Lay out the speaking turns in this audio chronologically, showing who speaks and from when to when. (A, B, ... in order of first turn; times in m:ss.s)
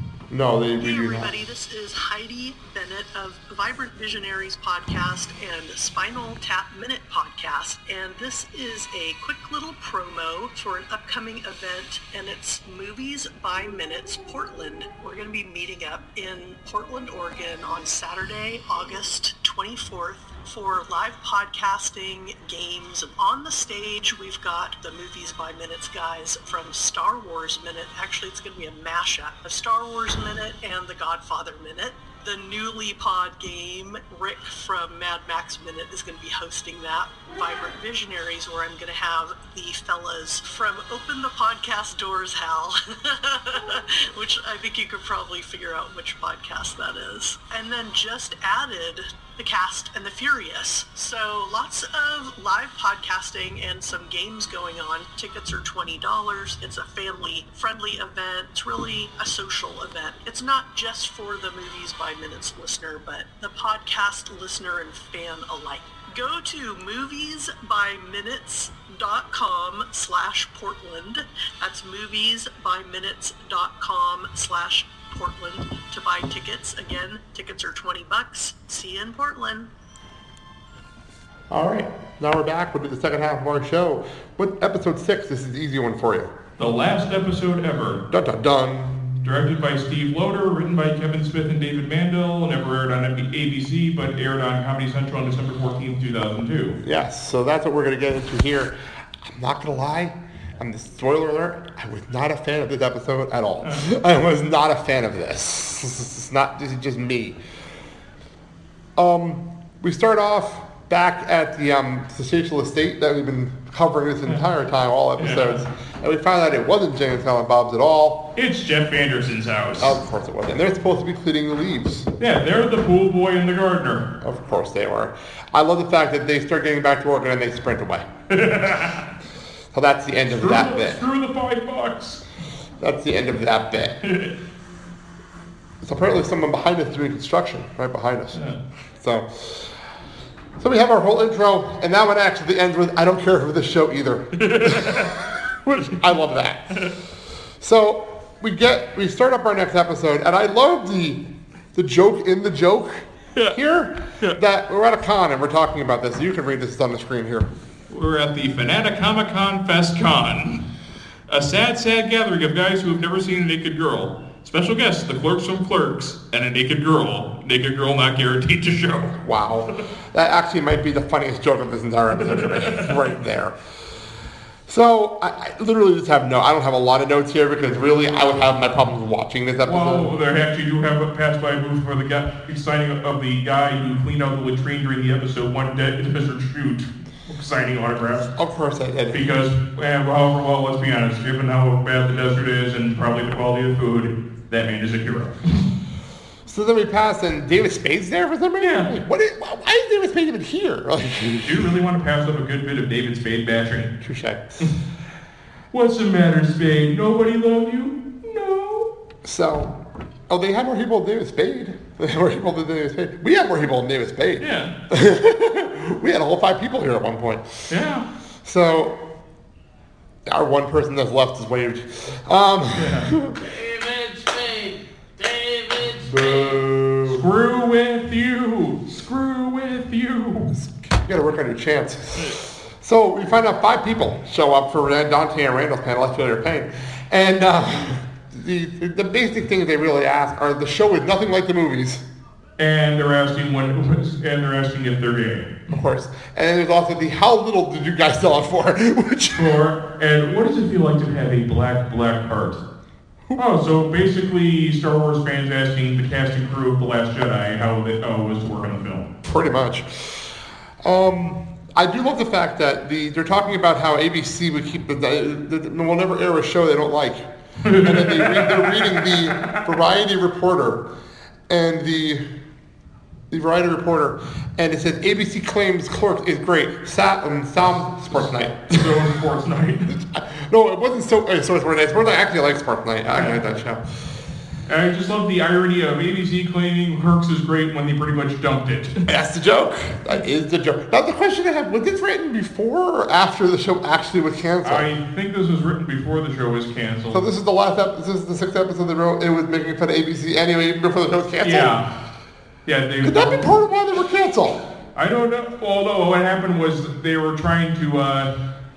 0:00.3-0:01.3 A
0:00.8-1:19.7 B
1:21.5-1:26.3 A
1:26.6-1:28.0 C
1:28.1-1:29.3 A
1:29.2-1:36.8 C
1:36.8-1:47.4 A
1:49.0-1:58.3 A
1:55.2-1:55.6 C
1:58.4-2:00.0 C
1:59.8-2:02.1 A
2:02.2-2:04.1 C
2:04.2-2:08.1 A
2:08.3-2:09.1 C
2:09.7-2:11.0 A
2:10.3-2:12.2 C
2:12.8-2:14.0 A
2:14.0-2:14.3 C
2:15.8-2:18.4 A
2:18.3-2:18.6 C
2:19.0-2:19.7 A
2:20.6-2:26.8 A
2:24.4-2:25.1 C
2:27.6-2:37.5 A
2:37.9-2:40.6 C
2:41.3-2:49.2 C
2:49.2-2:53.6 A
2:52.2-2:53.0 C
2:54.7-3:00.1 A
2:59.6-3:08.3 C
3:08.4-3:09.3 A
3:09.1-3:15.7 C
3:16.5-3:21.7 A
3:18.6-3:18.9 C
3:21.4-3:23.9 C
3:24.0-3:24.7 A
3:25.7-3:28.9 C
3:29.2-3:29.8 A
3:30.3-3:37.7 A
3:34.4-3:34.7 C
3:37.7-3:38.1 C
3:38.4-3:39.0 A
3:40.3-3:43.4 A
3:42.8-3:43.1 C
3:43.4-3:46.6 D
3:46.1-3:47.2 A
3:47.1-3:50.6 C
3:50.6-4:02.0 A
4:02.6-4:05.7 C
4:05.7-4:09.6 A
4:09.3-4:12.6 C
4:13.4-4:19.1 C
4:19.2-4:30.9 A
4:27.6-4:29.6 C
4:31.5-4:32.3 A
4:33.3-4:39.1 A
4:38.7-4:39.9 C
4:39.9-4:43.8 A
4:44.7-4:49.0 C
4:49.1-4:54.9 A
4:54.6-4:57.2 C
4:57.1-5:01.7 A
5:01.4-5:01.9 C
5:02.7-5:03.5 C
5:03.0-5:04.6 A
5:05.0-5:08.3 C